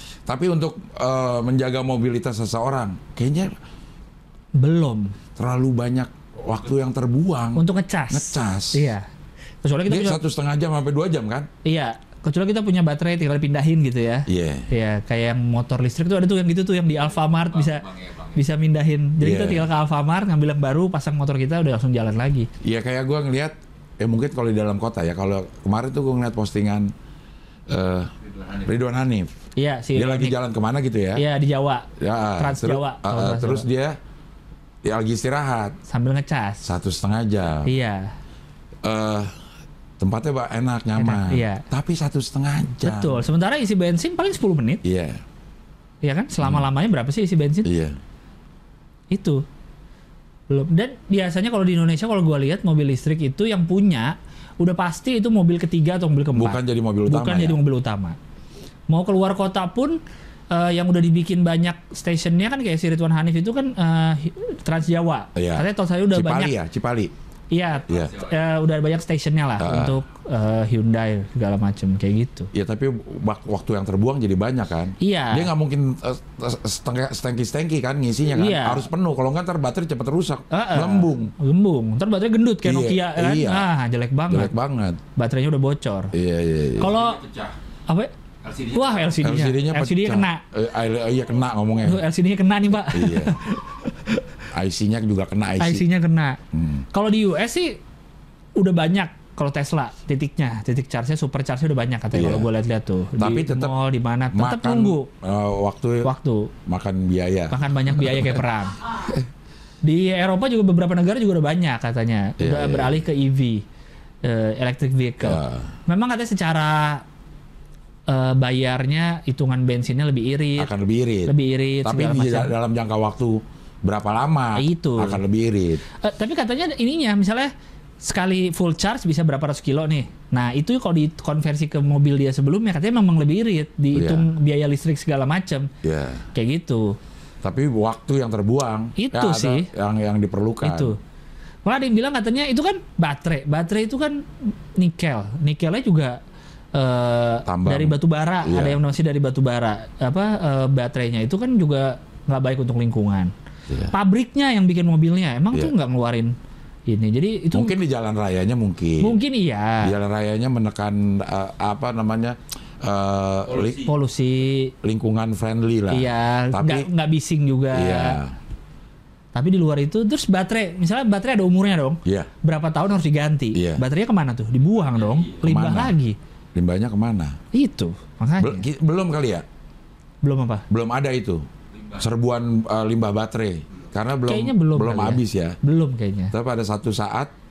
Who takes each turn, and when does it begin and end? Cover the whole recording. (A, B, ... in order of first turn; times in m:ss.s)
0:00.3-0:03.5 A
0:04.5-0:05.1 B
0:05.4-0:08.9 A
0:07.6-0:09.0 B
0:09.6-0:10.2 B
0:09.9-0:11.5 A
0:11.6-0:17.8 B
0:14.3-0:14.7 A
0:17.0-0:18.4 C
0:18.3-0:22.5 B
0:19.2-0:19.6 A
0:22.6-0:26.9 A
0:27.7-0:28.1 A
0:28.2-0:28.7 C
0:28.6-0:29.3 A
0:29.6-0:30.3 B
0:29.9-0:31.2 A
0:31.2-0:33.6 B
0:32.0-0:34.0 A
0:34.8-0:35.8 A
0:35.9-0:36.6 B
0:36.6-0:37.7 A
0:37.6-0:38.1 B
0:38.8-0:39.3 A
0:40.0-0:43.2 A
0:41.0-0:41.6 B
0:42.8-0:44.8 B
0:44.8-0:45.2 A
0:46.0-0:47.7 B
0:47.6-0:48.0 A
0:49.1-0:49.4 B
0:50.5-0:58.2 B
0:56.3-0:57.6 A
0:58.9-1:00.0 B
1:00.5-1:06.5 B
1:05.3-1:07.1 A
1:07.5-1:12.5 B
1:07.7-1:08.4 C
1:09.6-1:10.0 A
1:12.5-1:21.3 A
1:15.0-1:15.5 B
1:18.3-1:18.8 B
1:20.5-1:24.5 B
1:22.6-1:23.6 A
1:24.3-1:25.0 A
1:25.2-1:26.1 B
1:26.1-1:26.9 A
1:26.8-1:27.2 B
1:26.8-1:27.6 C
1:28.4-1:29.3 C
1:28.7-1:30.4 B
1:29.2-1:32.0 A
1:31.8-1:34.2 B
1:32.9-1:33.4 A
1:34.5-1:35.8 A
1:35.6-1:36.4 B
1:36.5-1:36.8 A
1:36.9-1:37.8 B
1:38.6-1:45.1 B
1:42.1-1:42.5 A
1:43.2-1:43.7 A
1:44.3-1:46.1 A
1:46.0-1:46.5 B
1:46.6-1:48.4 A
1:47.5-1:48.8 B
1:49.8-1:53.6 B
1:52.4-1:53.0 A
1:54.2-1:57.0 B
1:55.2-1:55.7 A
1:58.1-2:00.7 B
2:00.6-2:05.8 A
2:01.3-2:02.5 B
2:04.6-2:05.2 B
2:06.0-2:15.7 B
2:13.9-2:14.3 A
2:15.8-2:16.2 A
2:16.3-2:17.0 B
2:17.4-2:20.9 A
2:19.0-2:19.7 B
2:20.6-2:21.0 B
2:21.6-2:26.2 B
2:26.7-2:33.3 B
2:27.4-2:28.8 A
2:33.7-2:33.9 A
2:33.9-2:36.3 B
2:36.9-2:37.8 B
2:37.5-2:39.2 A
2:39.0-2:39.9 B
2:39.8-2:43.8 A
2:43.4-2:43.9 C
2:43.8-2:44.7 B
2:44.8-2:46.9 A
2:45.9-2:48.2 B
2:47.7-2:48.3 A
2:49.3-2:56.2 B
2:52.0-2:52.3 A
2:53.5-2:53.8 A
2:54.8-2:55.4 C
2:55.4-2:55.9 A
2:56.5-2:57.4 A
2:57.5-2:58.6 B
2:58.4-2:59.4 A
3:00.2-3:00.6 B
3:00.7-3:01.4 A
3:01.7-3:02.0 C
3:02.0-3:05.6 A
3:04.3-3:06.3 B
3:06.3-3:07.3 A